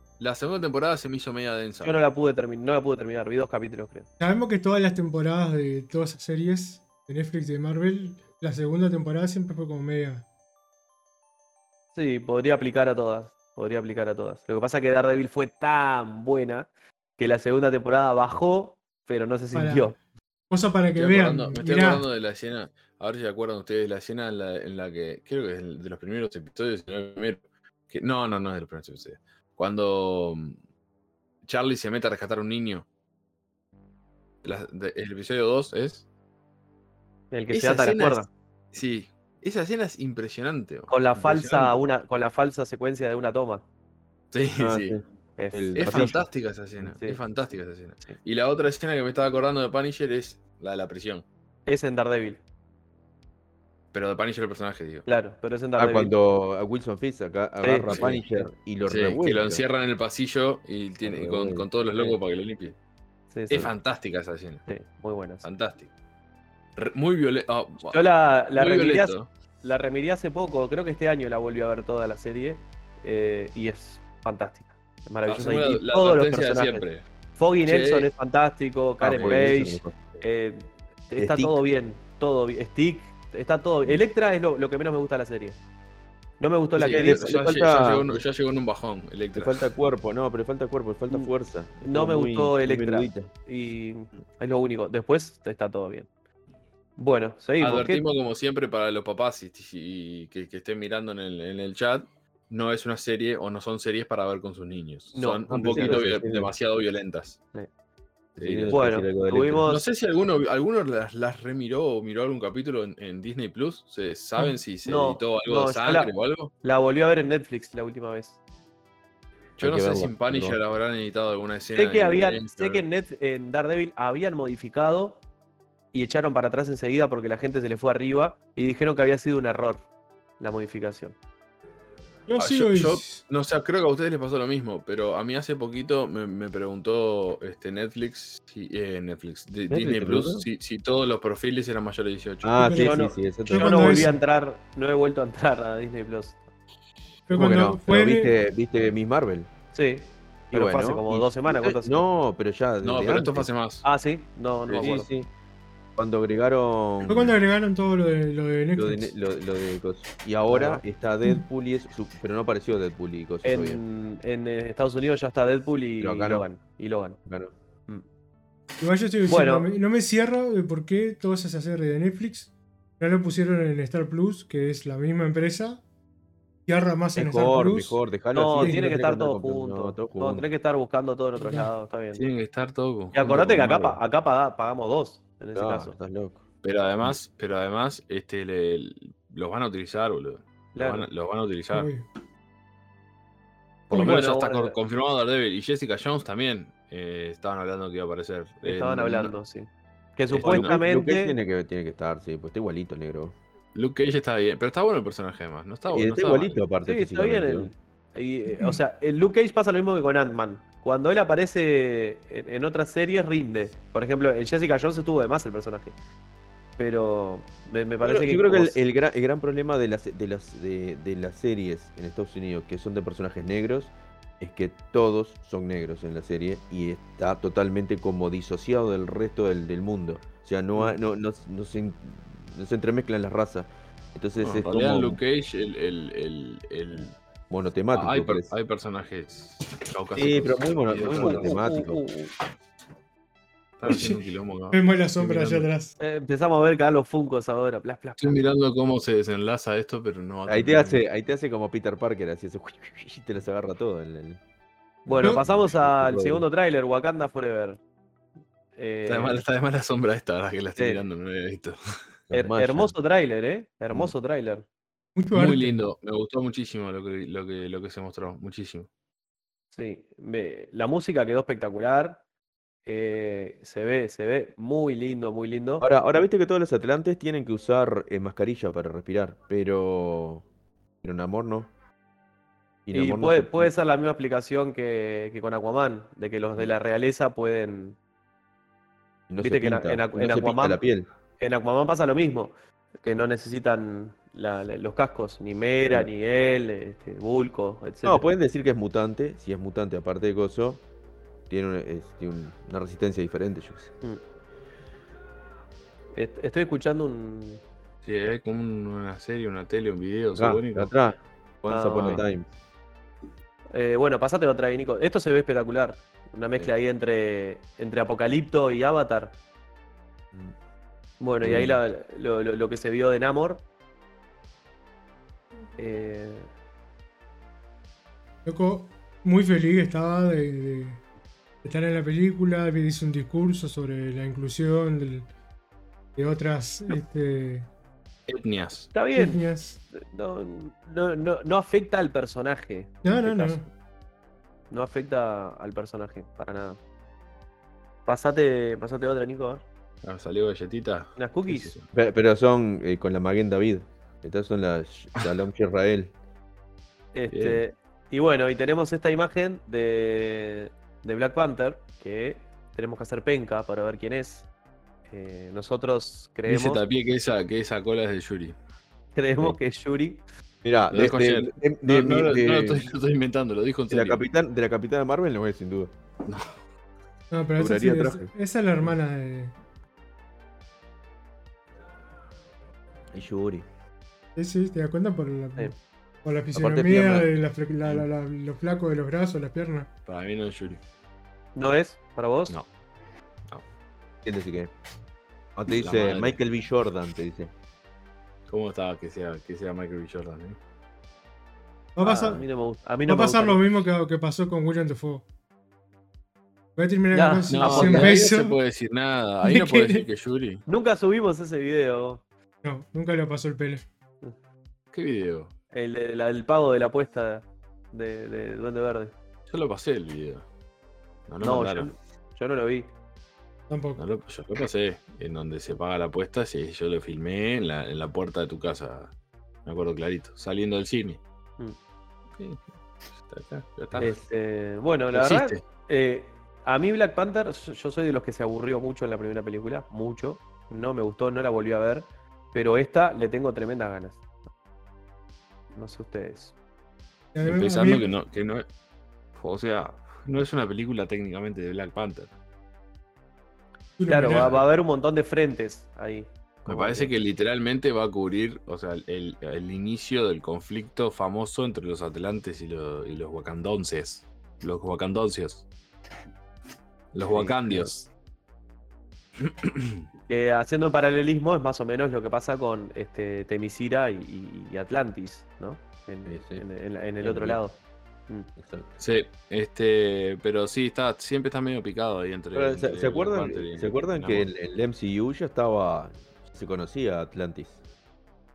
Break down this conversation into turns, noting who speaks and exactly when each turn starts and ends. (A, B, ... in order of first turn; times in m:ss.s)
0:00.2-0:02.0 A
0:01.8-0:04.1 B
0:04.2-0:10.2 C
0:11.9-0:20.0 B
0:19.5-0:19.9 C
0:20.5-0:22.0 C
0:20.9-0:30.6 A
0:31.4-0:32.8 A
0:34.4-0:36.0 A
0:37.3-0:38.3 B
0:37.5-0:41.7 A
0:40.9-0:43.6 B
0:44.3-0:45.0 A
0:44.6-0:45.0 D
0:45.4-0:46.2 B
0:45.5-0:46.2 D
0:45.8-0:51.2 A
0:46.8-0:47.2 B
0:51.6-0:52.4 B
0:53.9-0:55.0 A
0:55.0-0:56.1 B
0:55.8-0:59.6 D
0:57.6-0:58.5 B
0:57.9-0:58.2 A
0:58.8-1:02.8 A
1:01.0-1:01.7 D
1:03.3-1:03.7 B
1:03.5-1:04.7 A
1:04.7-1:05.4 B
1:05.4-1:05.9 A
1:06.8-1:08.0 A
1:07.9-1:16.8 B
1:08.5-1:09.3 A
1:15.2-1:17.0 A
1:17.4-1:25.6 B
1:17.6-1:18.1 A
1:19.0-1:20.0 D
1:19.1-1:19.6 A
1:21.2-1:21.6 D
1:26.4-1:27.4 B
1:26.8-1:29.7 A
1:26.8-1:28.2 D
1:29.3-1:33.3 D
1:31.8-1:36.1 B
1:37.0-1:38.0 B
1:37.6-1:47.4 A
1:45.1-1:46.1 B
1:45.5-1:46.5 D
1:48.4-1:49.6 D
1:48.4-1:48.8 A
1:48.7-1:49.8 B
1:49.6-1:56.5 A
1:54.8-1:56.1 B
1:56.6-1:58.4 B
1:59.6-2:02.8 A
1:59.6-2:00.6 D
2:01.7-2:05.2 B
2:05.9-2:09.8 B
2:10.4-2:11.2 B
2:12.3-2:13.2 C
2:12.4-2:22.8 A
2:19.7-2:20.4 D
2:22.4-2:24.1 D
2:22.6-2:24.2 C
2:22.8-2:26.4 B
2:27.3-2:28.3 C
2:27.3-2:29.5 D
2:29.7-2:32.0 B
2:30.5-2:33.5 D
2:32.8-2:33.8 A
2:33.8-2:35.1 B
2:34.7-2:35.3 D
2:36.0-2:37.4 D
2:37.0-2:39.1 C
2:38.7-2:43.8 D
2:40.5-2:40.8 B
2:43.4-2:47.2 B
2:46.0-2:46.4 D
2:47.2-2:47.5 D
2:48.8-2:55.8 C
2:49.3-2:49.7 B
2:56.6-2:58.0 C
2:57.1-3:00.5 D
2:58.3-3:02.2 B
2:58.6-2:58.8 C
3:01.4-3:01.7 C
3:02.1-3:03.9 A
3:03.1-3:05.9 B
3:05.5-3:06.4 D
3:06.6-3:11.9 A
3:10.7-3:11.1 B
3:11.7-3:12.0 C
3:13.9-3:14.8 B
3:13.9-3:19.3 A
3:18.6-3:21.4 B
3:20.3-3:20.7 A
3:20.4-3:23.3 D
3:23.7-3:26.6 A
3:25.9-3:27.7 D
3:26.8-3:35.9 B
3:36.8-3:38.8 B
3:38.0-3:55.2 D
3:54.4-3:57.2 A
3:57.5-3:58.5 D
3:57.9-4:01.7 A
4:00.1-4:02.0 D
4:01.1-4:02.3 B
4:03.8-4:05.7 A
4:03.8-4:04.2 C
4:04.7-4:05.9 C
4:06.0-4:08.5 B
4:08.2-4:11.0 A
4:10.5-4:14.4 D
4:15.0-4:16.4 D
4:15.0-4:17.8 B
4:18.8-4:19.4 B
4:19.0-4:21.8 A
4:20.8-4:21.0 B
4:22.3-4:22.9 D
4:22.3-4:24.7 B
4:25.2-4:25.8 C
4:25.3-4:28.9 A
4:29.7-4:32.2 B
4:32.8-4:35.9 B
4:35.8-4:40.4 D
4:41.0-4:41.7 D
4:42.8-4:43.7 D
4:42.9-4:48.0 B
4:49.3-4:51.1 D
4:49.4-4:50.8 B
4:51.4-4:58.2 B
4:58.0-5:00.8 D
5:01.5-5:03.9 D
5:06.1-5:07.6 B
5:08.0-5:10.9 A
5:10.4-5:12.5 D
5:11.7-5:12.2 B
5:13.7-5:19.4 B
5:21.2-5:23.6 B
5:21.4-5:21.8 D
5:25.8-5:26.5 B
5:28.4-5:31.0 C
5:31.6-5:35.3 C
5:36.2-5:37.7 C
5:38.3-5:38.9 A
5:38.9-5:39.4 B
5:39.1-5:39.8 C
5:39.9-5:43.6 B
5:43.0-5:43.7 C
5:44.7-5:46.8 B
5:48.0-5:49.6 B
5:50.0-5:51.8 A
5:51.2-5:51.7 B
5:51.9-5:56.1 D
5:57.1-6:04.5 B
5:57.3-5:57.6 A
6:05.1-6:06.8 B
6:06.5-6:08.5 A
6:09.1-6:10.2 B
6:10.6-6:12.8 D
6:10.9-6:14.2 A
6:13.9-6:15.9 D
6:16.2-6:16.5 A
6:17.3-6:19.5 C
6:17.6-6:18.3 D
6:23.1-6:23.6 D
6:24.4-6:25.7 C
6:26.2-6:29.9 C
6:26.5-6:27.3 D
6:30.0-6:30.8 A
6:31.5-6:32.6 B
6:34.2-6:34.7 D
6:35.6-6:37.5 D
6:35.7-6:36.4 A
6:38.5-6:40.6 A
6:42.0-6:42.4 C
6:42.0-6:43.6 B
6:43.1-6:45.2 C
6:46.8-6:48.6 C
6:47.1-6:48.2 B
6:47.5-6:50.6 A
6:49.4-6:50.1 C
6:50.6-6:52.2 B
6:52.6-6:53.8 C
6:54.9-6:55.5 A
6:55.7-6:59.1 B
6:59.5-7:00.4 A
7:01.3-7:01.9 A
7:01.4-7:02.9 B
7:03.7-7:04.0 C
7:04.0-7:09.1 A
7:09.6-7:11.2 A
7:12.4-7:12.6 A
7:13.2-7:14.1 A
7:14.0-7:24.2 B
7:15.1-7:15.6 A
7:25.7-7:26.5 B
7:27.3-7:28.1 C
7:27.4-7:28.6 A
7:29.3-7:32.3 A
7:34.0-7:34.6 C
7:34.1-7:37.1 B
7:34.3-7:34.6 A
7:36.6-7:45.6 A
7:47.1-7:48.1 A
7:47.3-7:47.6 D
7:49.4-7:50.0 A
7:50.3-7:58.5 B
7:56.2-7:56.6 D
7:57.2-7:57.6 D
7:58.6-7:58.9 D
7:59.0-8:04.5 A
8:02.5-8:07.8 D